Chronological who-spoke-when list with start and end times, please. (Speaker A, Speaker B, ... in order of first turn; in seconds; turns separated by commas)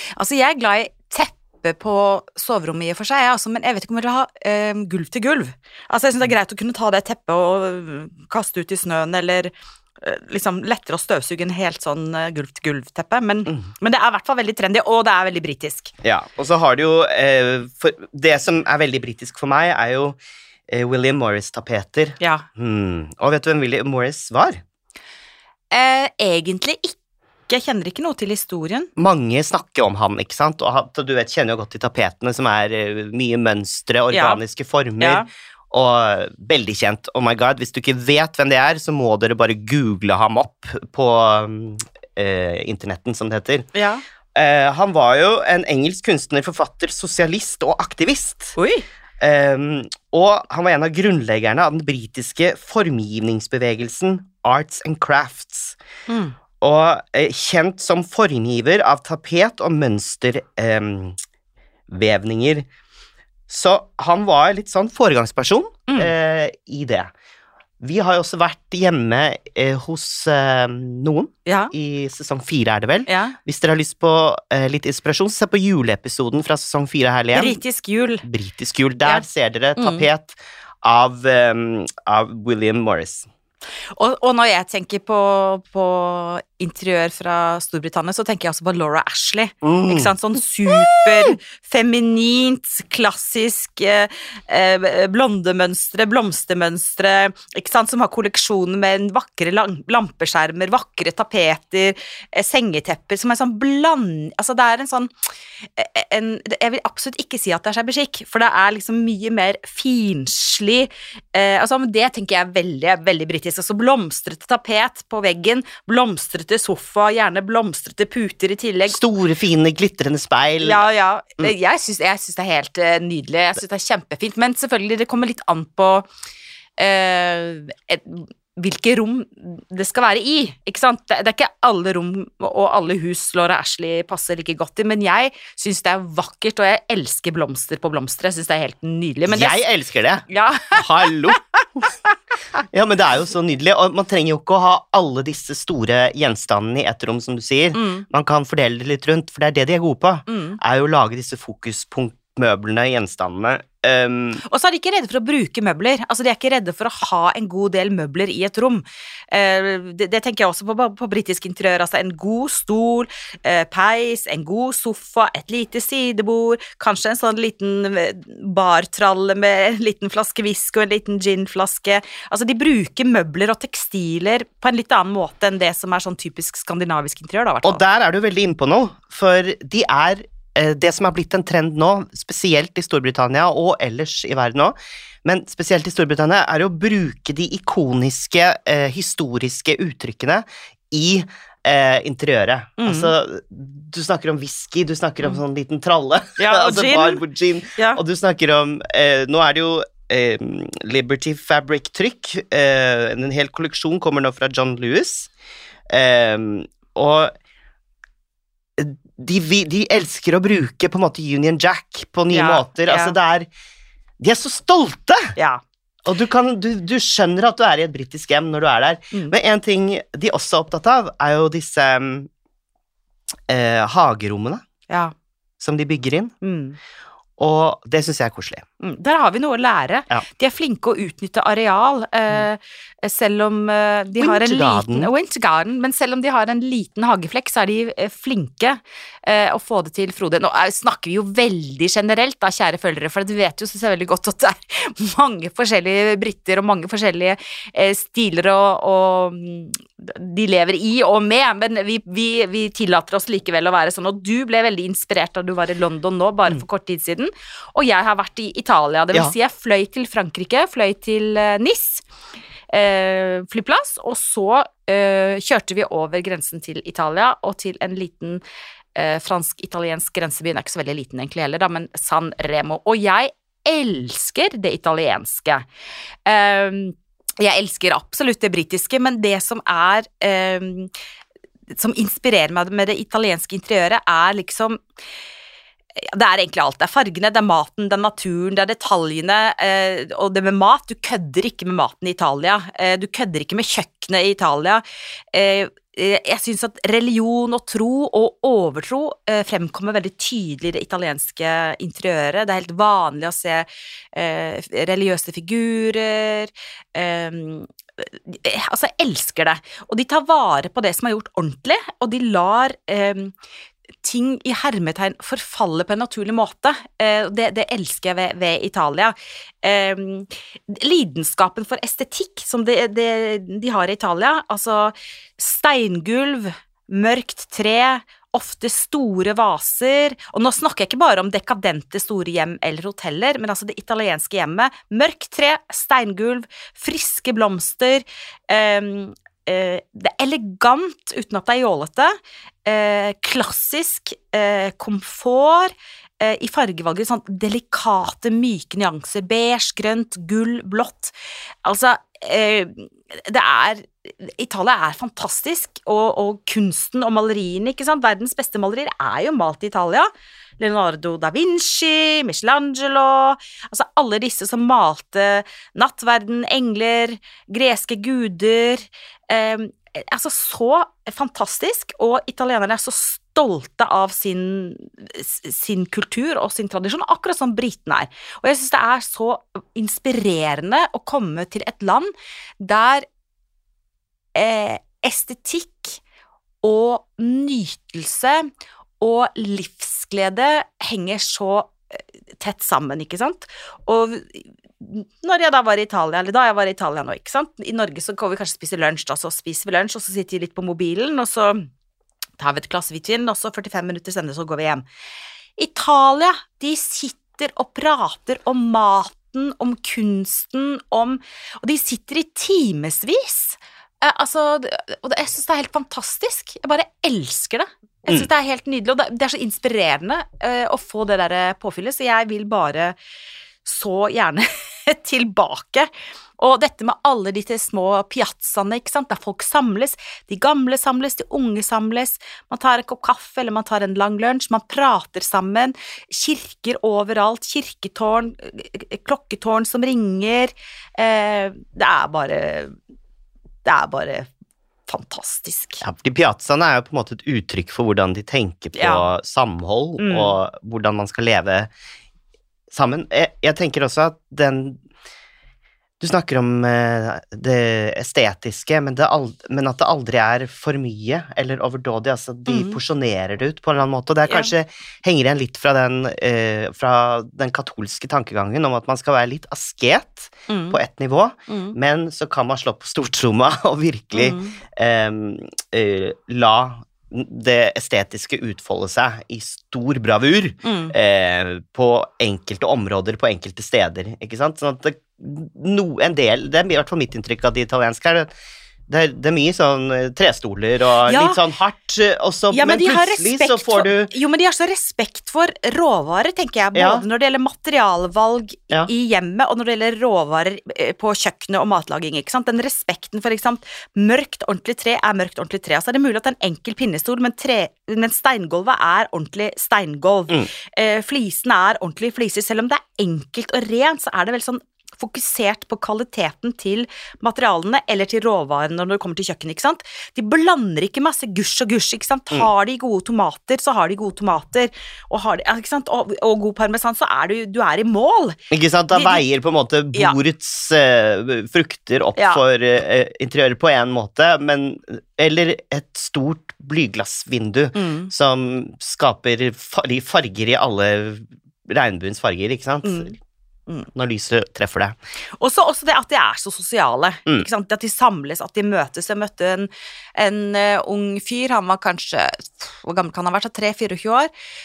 Speaker A: 0.1-15.9, Speaker B: 16.0-20.2, Speaker B: 20.7-24.6, Speaker A: 22.2-22.4, Speaker A: 25.7-26.9, Speaker A: 27.5-28.9, Speaker B: 29.0-43.7, Speaker A: 34.1-34.4, Speaker A: 35.0-35.3, Speaker A: 43.7-44.0, Speaker B: 44.3-48.6, Speaker A: 48.5-48.9, Speaker B: 49.2-55.8, Speaker A: 56.1-56.3, Speaker B: 56.6-61.2, Speaker B: 61.9-62.6, Speaker B: 63.5-67.1, Speaker B: 67.8-77.6, Speaker A: 71.5-71.7, Speaker A: 73.1-73.4, Speaker A: 77.3-78.2, Speaker B: 78.2-83.3, Speaker A: 79.8-80.1, Speaker A: 84.0-105.1, Speaker B: 89.6-90.1, Speaker A: 105.8-119.0, Speaker B: 118.9-120.8, Speaker A: 120.6-126.1, Speaker A: 126.8-139.6, Speaker B: 139.3-141.8, Speaker A: 140.3-141.2, Speaker B: 142.7-154.4, Speaker A: 147.7-148.1, Speaker A: 150.3-150.6, Speaker A: 154.4-177.8, Speaker B: 177.6-205.3, Speaker A: 192.8-193.1, Speaker A: 196.4-197.2, Speaker A: 197.8-198.0, Speaker B: 205.9-207.3, Speaker B: 208.8-213.5, Speaker A: 212.3-213.2, Speaker B: 214.2-215.3, Speaker A: 215.3-215.6, Speaker B: 216.0-222.3, Speaker B: 223.5-224.6, Speaker B: 225.6-226.3, Speaker A: 226.4-226.8, Speaker B: 227.4-228.6, Speaker A: 228.8-262.0, Speaker B: 234.2-235.1, Speaker A: 262.7-268.4, Speaker A: 268.9-275.6, Speaker A: 276.2-280.9, Speaker A: 281.7-284.8, Speaker A: 285.9-313.3, Speaker A: 314.0-351.1, Speaker A: 351.6-383.0, Speaker A: 384.3-386.0, Speaker A: 386.6-388.5, Speaker A: 389.0-391.8, Speaker A: 392.4-401.7, Speaker A: 402.4-404.8, Speaker A: 405.6-422.9, Speaker A: 423.6-442.7, Speaker A: 443.6-444.3, Speaker A: 444.9-445.8, Speaker B: 445.8-451.7, Speaker A: 448.7-449.1, Speaker A: 450.0-450.4, Speaker B: 452.7-454.8, Speaker B: 456.0-488.3, Speaker A: 462.5-462.8, Speaker A: 464.3-464.5, Speaker A: 470.5-470.8, Speaker A: 471.5-471.8, Speaker A: 474.1-474.6, Speaker A: 480.6-480.9, Speaker B: 488.9-494.1, Speaker A: 491.0-491.4, Speaker A: 492.5-528.4, Speaker B: 496.7-497.0, Speaker B: 528.5-543.1, Speaker A: 528.9-529.2, Speaker A: 532.1-532.4, Speaker A: 537.7-538.1, Speaker A: 542.8-543.1, Speaker B: 543.9-545.0, Speaker A: 545.4-554.3